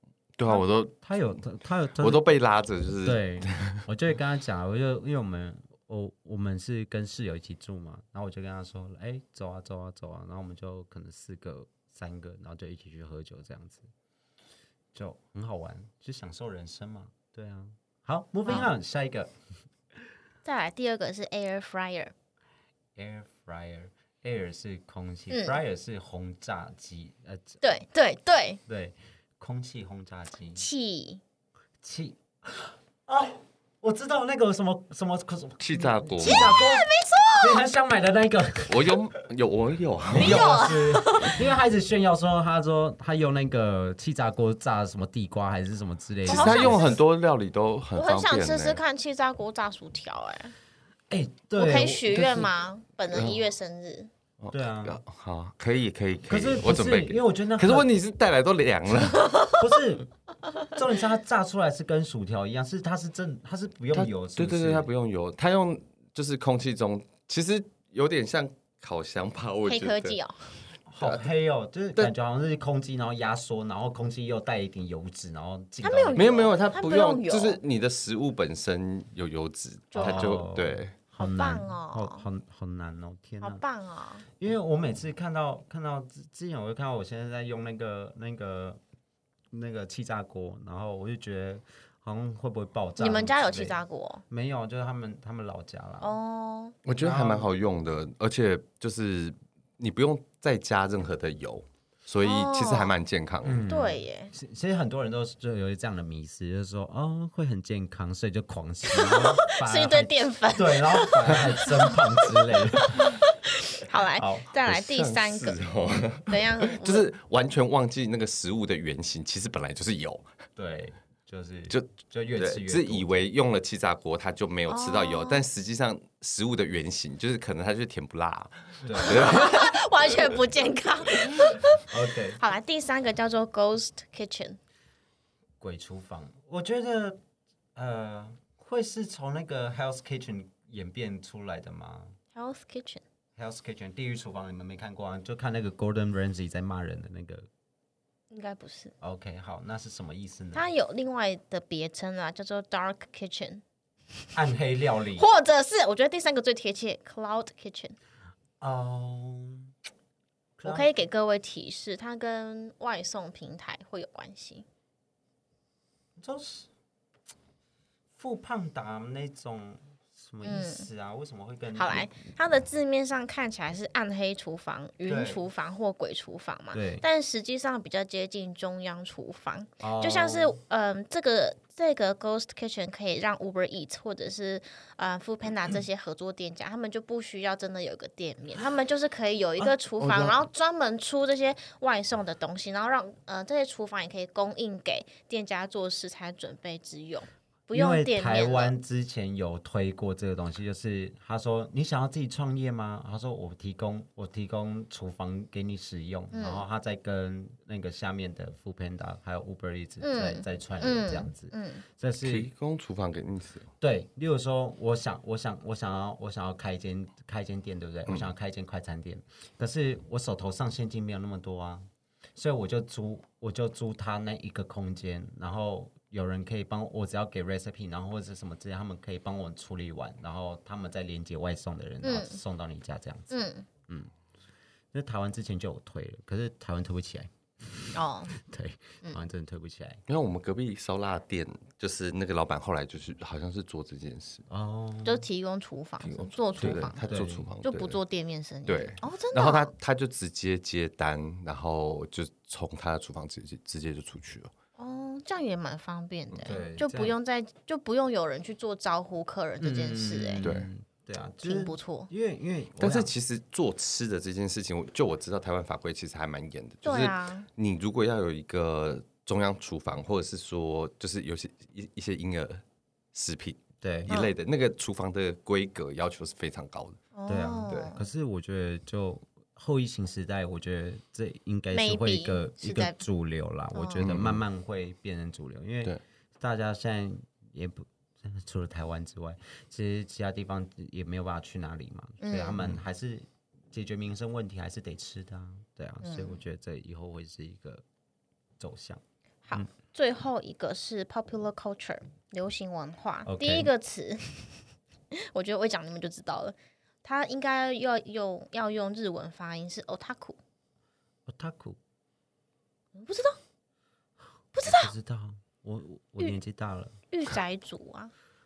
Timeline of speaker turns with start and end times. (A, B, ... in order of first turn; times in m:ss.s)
0:00.4-0:00.9 A
0:00.4-0:02.3 B
0:02.0-0:03.8 A
0:03.0-0:13.9 B
0:14.9-0:19.3 B
0:20.4-0:22.1 C
0:23.0-0:27.6 B
0:25.3-0:25.6 C
0:27.6-0:28.6 C
0:28.7-0:30.6 B
0:30.6-0:31.2 C
0:31.8-0:39.0 B
0:35.6-0:36.6 A
0:36.2-0:37.6 C
0:38.7-0:40.8 A
0:40.1-0:46.9 B
0:40.1-0:41.4 C
0:46.3-0:47.0 C
0:46.3-0:48.8 A
0:48.0-0:50.5 C
0:51.1-0:52.5 B
0:51.6-0:54.1 C
0:53.1-0:53.4 A
0:54.4-0:59.3 A
0:54.5-0:55.0 B
0:56.3-0:57.9 B
0:59.6-1:00.1 B
1:00.6-1:04.9 B
1:03.9-1:10.2 A
1:09.6-1:10.5 C
1:10.9-1:16.3 B
1:11.0-1:11.3 A
1:15.8-1:17.6 C
1:16.1-1:20.9 A
1:19.9-1:20.4 C
1:20.0-1:23.6 B
1:21.1-1:22.2 C
1:23.4-1:24.2 C
1:24.4-1:28.8 B
1:29.5-1:36.2 B
1:33.0-1:34.2 C
1:36.0-1:36.8 C
1:36.8-1:43.6 A
1:36.9-1:37.5 B
1:42.2-1:42.9 C
1:43.4-1:53.2 B
1:43.7-1:44.3 C
1:48.9-1:55.7 C
1:54.1-1:54.5 B
1:54.6-2:00.3 A
1:56.2-1:57.1 C
2:00.6-2:03.1 B
2:01.7-2:10.2 A
2:04.7-2:05.4 C
2:08.8-2:09.2 B
2:09.0-2:14.6 C
2:11.8-2:12.4 B
2:15.6-2:17.2 B
2:17.7-2:22.2 B
2:22.3-2:23.0 C
2:23.4-2:27.5 B
2:28.3-2:28.9 C
2:29.0-2:30.7 B
2:30.5-2:33.6 C
2:34.3-2:35.3 B
2:35.2-2:38.0 C
2:38.6-2:39.7 B
2:40.6-2:40.9 B
2:40.6-2:44.6 C
2:46.2-2:46.7 B
2:48.2-2:52.1 B
2:50.4-2:50.9 C
2:51.8-3:18.7 C
2:55.0-2:55.4 B
2:56.7-2:57.0 B
2:59.8-3:00.6 B
3:10.0-3:10.3 A
3:17.7-3:32.5 B
3:26.3-3:26.6 C
3:30.0-3:31.8 C
3:32.2-3:33.7 A
3:33.8-3:53.3 B
3:52.0-3:52.4 C
3:53.3-3:53.7 C
3:53.9-3:54.1 B
3:54.9-4:00.0 B
3:57.9-3:58.3 C
4:00.1-4:04.4 A
4:04.5-4:05.2 B
4:05.0-4:07.1 C
4:06.0-4:08.0 A
4:06.6-4:07.4 B
4:07.6-4:09.7 C
4:08.6-4:14.5 A
4:14.8-4:20.5 C
4:16.4-4:17.2 B
4:19.6-4:23.1 B
4:20.4-4:20.7 A
4:21.4-4:22.1 C
4:22.8-4:32.6 A
4:26.8-4:27.4 C
4:33.1-4:37.0 A
4:33.8-4:34.1 B
4:37.1-4:38.0 C
4:37.3-4:57.8 B
4:41.7-4:43.0 C
4:43.7-4:44.1 C
4:44.0-4:44.4 A
4:52.2-4:52.6 C
4:56.0-4:56.4 C
4:58.6-4:59.0 B
4:59.4-5:10.4 C
5:03.2-5:03.7 B
5:11.3-5:11.8 B
5:12.9-5:13.4 C
5:14.5-5:14.9 C
5:14.6-5:17.0 B
5:17.1-5:18.1 C